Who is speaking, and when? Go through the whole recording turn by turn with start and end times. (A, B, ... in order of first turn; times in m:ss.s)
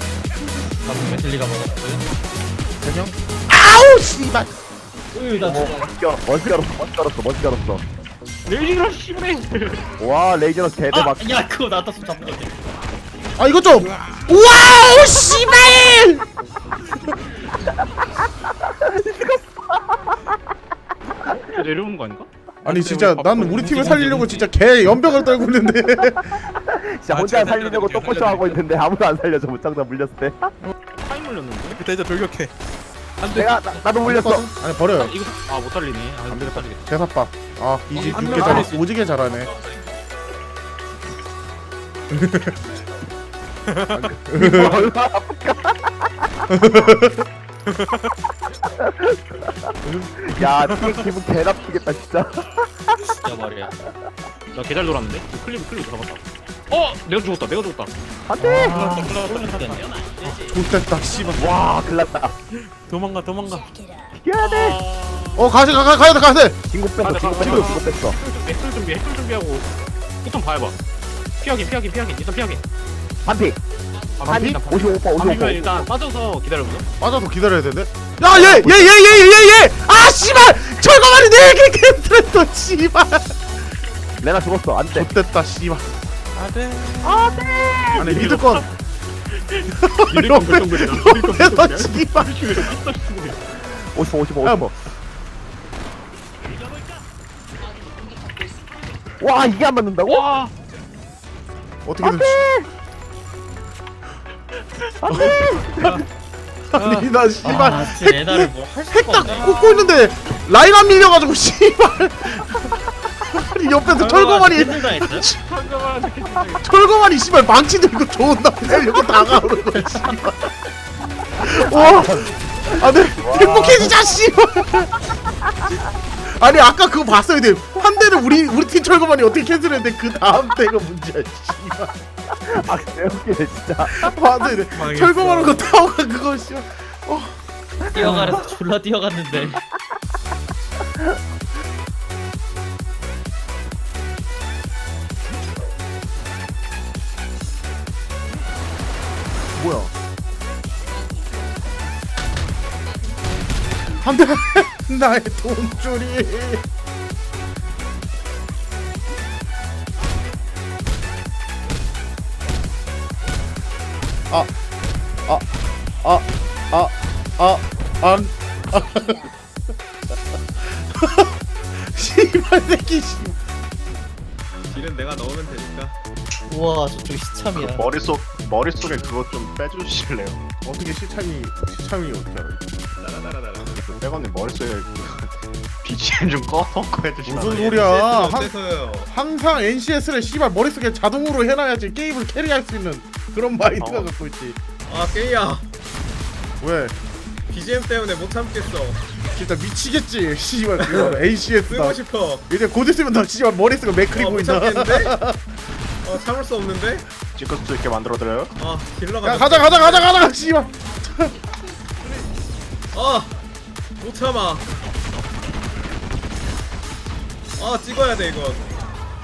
0:00.9-0:02.0 A
0:03.5-0:04.6 B
0:05.1-0:05.9 A
0:05.4-0:07.8 C
0:08.5-0:09.8 D
0:10.0-0:11.4 C
0:10.9-0:12.5 A
0:13.4-0:16.2 B
0:18.7-0:20.1 C
0:21.3-0:22.3 D
0:22.6-0:24.5 E
0:22.7-0:26.5 B
0:26.6-0:30.5 C
0:27.1-0:28.2 E
0:27.6-0:28.5 D
0:31.0-0:31.8 D
0:31.7-0:32.5 E
0:33.2-0:33.6 D
0:33.2-0:34.5 C
0:34.0-0:35.2 B
0:35.0-0:36.8 D
0:36.3-0:39.5 B
0:37.9-0:38.8 E
0:42.1-0:42.5 B
0:43.9-0:44.9 B
0:44.4-0:46.3 C
0:46.5-0:47.3 B
0:48.8-0:53.1 C
0:50.5-0:50.9 E
0:53.2-0:53.8 A
0:54.5-0:57.9 D
0:58.3-0:58.9 C
0:58.4-1:00.6 A
0:58.7-1:00.4 D
0:59.0-0:59.2 E
1:00.3-1:01.6 B
1:01.3-1:02.4 C
1:02.7-1:03.7 E
1:04.1-1:04.8 C
1:04.4-1:05.4 D
1:05.4-1:06.6 B
1:06.7-1:08.2 C
1:07.0-1:09.7 D
1:07.3-1:07.8 B
1:10.2-1:10.8 D
1:11.4-1:12.6 D
1:13.2-1:13.6 C
1:14.2-1:16.9 D
1:14.2-1:14.6 B
1:14.2-1:15.9 C
1:17.0-1:23.4 B
1:18.3-1:18.9 C
1:24.2-1:25.1 C
1:24.9-1:25.9 B
1:26.4-1:28.4 E
1:27.0-1:28.2 C
1:28.0-1:28.7 B
1:29.6-1:32.8 B
1:30.1-1:33.4 D
1:33.7-1:34.8 C
1:34.4-1:34.7 B
1:39.2-1:40.3 C
1:40.1-1:40.5 D
1:41.8-1:42.5 B
1:42.1-1:42.7 C
1:45.0-1:46.0 C
1:45.0-1:45.6 B
1:46.7-1:55.4 B
1:47.4-1:49.6 A
1:49.3-1:49.7 D
1:53.9-1:55.3 A
1:55.4-1:56.6 D
1:56.6-2:00.5 B
1:59.7-2:00.2 A
2:01.4-2:05.0 B
2:01.4-2:03.9 C
2:06.2-2:12.6 B
2:12.4-2:14.2 C
2:13.9-2:17.4 B
2:14.9-2:15.5 D
2:17.9-2:19.6 A
2:29.6-2:29.9 B
2:34.0-2:36.6 B
2:46.0-2:49.3 B
2:50.6-2:53.4 B
2:54.6-2:56.0 F
2:56.5-2:57.9 A
2:57.5-3:00.4 G
3:00.6-3:02.6 B
3:03.0-3:03.8 F
3:03.6-3:07.9 G
3:07.2-3:08.5 B
3:07.5-3:09.1 F
3:09.1-3:14.6 B
3:13.8-3:14.1 G
3:14.9-3:15.7 F
3:16.6-3:17.0 B
3:17.5-3:19.0 F
3:19.3-3:25.5 B
3:21.7-3:22.5 F
3:24.1-3:25.1 F
3:26.0-3:27.1 F
3:27.4-3:28.5 G
3:28.6-3:30.1 F
3:29.2-3:31.4 B
3:32.9-3:33.4 F
3:34.0-3:34.7 F
3:37.6-3:38.7 F